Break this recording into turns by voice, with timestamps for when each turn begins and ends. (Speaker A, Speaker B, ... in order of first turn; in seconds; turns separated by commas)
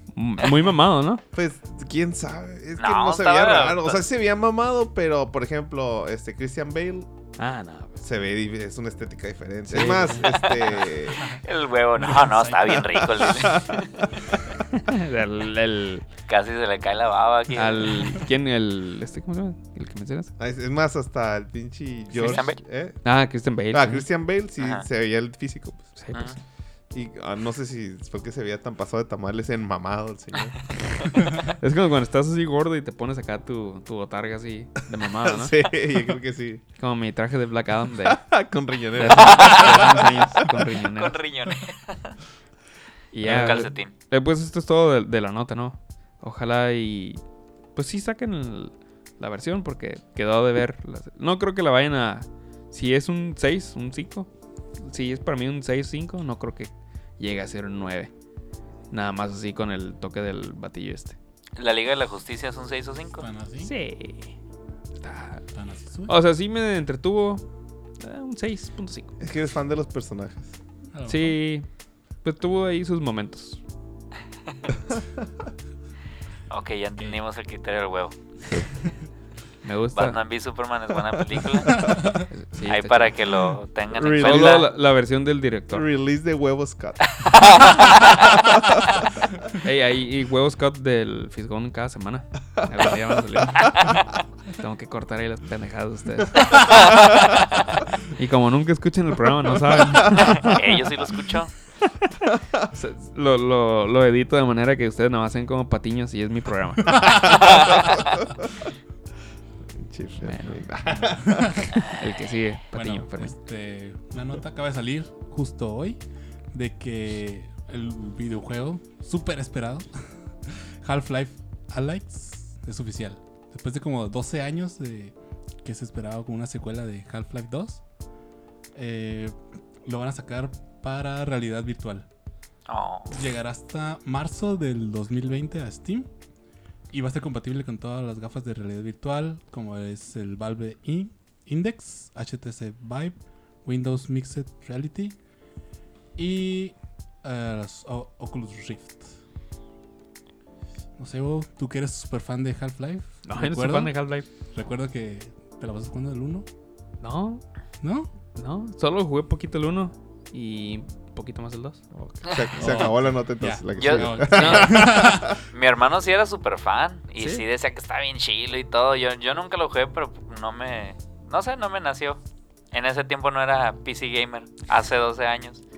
Speaker A: 0.1-1.2, Speaker B: 1.3-7.1, Speaker C: 2.8-4.0, Speaker A: 7.4-8.0, Speaker B: 8.0-11.4, Speaker A: 9.7-10.6, Speaker C: 10.4-14.1, Speaker D: 11.1-11.4, Speaker D: 12.0-13.0, Speaker B: 12.8-14.5, Speaker A: 14.8-16.0, Speaker C: 16.3-18.1, Speaker A: 17.5-20.3, Speaker B: 20.4-23.0, Speaker D: 22.1-22.4, Speaker C: 22.2-22.6, Speaker A: 23.0-24.0, Speaker B: 23.7-25.9, Speaker C: 24.6-24.9, Speaker A: 26.0-26.4, Speaker C: 26.1-26.4, Speaker B: 26.9-30.6, Speaker A: 31.4-35.5, Speaker B: 35.2-36.6, Speaker A: 36.8-38.2, Speaker B: 38.0-40.7, Speaker A: 39.0-41.1, Speaker C: 39.2-39.9, Speaker C: 40.9-42.1, Speaker A: 43.1-47.2, Speaker C: 43.2-43.9, Speaker A: 47.7-54.3, Speaker A: 54.8-58.1, Speaker A: 58.9-61.1, Speaker C: 61.6-63.3, Speaker D: 63.2-63.7, Speaker A: 63.6-64.3, Speaker A: 65.0-65.4, Speaker D: 65.5-66.1, Speaker A: 66.1-67.4, Speaker A: 68.0-69.2, Speaker B: 69.2-70.6, Speaker D: 70.9-71.4, Speaker A: 71.1-71.7, Speaker A: 72.2-73.6, Speaker C: 76.5-78.1, Speaker A: 79.6-80.2, Speaker C: 79.9-81.9, Speaker B: 81.6-82.0, Speaker D: 82.0-82.2, Speaker A: 82.2-83.2, Speaker C: 82.7-84.7, Speaker B: 83.9-84.7, Speaker A: 84.0-85.8, Speaker B: 85.7-89.0, Speaker C: 87.1-88.4, Speaker A: 89.6-97.5, Speaker A: 98.1-100.6, Speaker B: 99.8-100.5, Speaker C: 100.2-101.5, Speaker A: 101.8-107.8, Speaker B: 106.9-108.5, Speaker B: 109.8-111.8, Speaker A: 110.2-110.6, Speaker D: 110.9-111.7, Speaker A: 111.8-113.3, Speaker D: 112.7-116.0, Speaker D: 116.5-119.9, Speaker D: 120.5-127.8, Speaker D: 128.7-132.1, Speaker C: 132.7-133.2, Speaker D: 133.1-136.1, Speaker D: 136.9-145.2, Speaker D: 146.2-149.1, Speaker D: 151.0-156.4, Speaker A: 153.2-154.2, Speaker A: 157.0-157.4, Speaker D: 157.8-158.1, Speaker A: 158.3-161.8, Speaker B: 161.9-165.4, Speaker D: 162.6-165.3, Speaker C: 163.8-164.7, Speaker A: 164.3-164.9, Speaker C: 165.5-172.2, Speaker A: 167.2-167.4, Speaker C: 172.7-175.6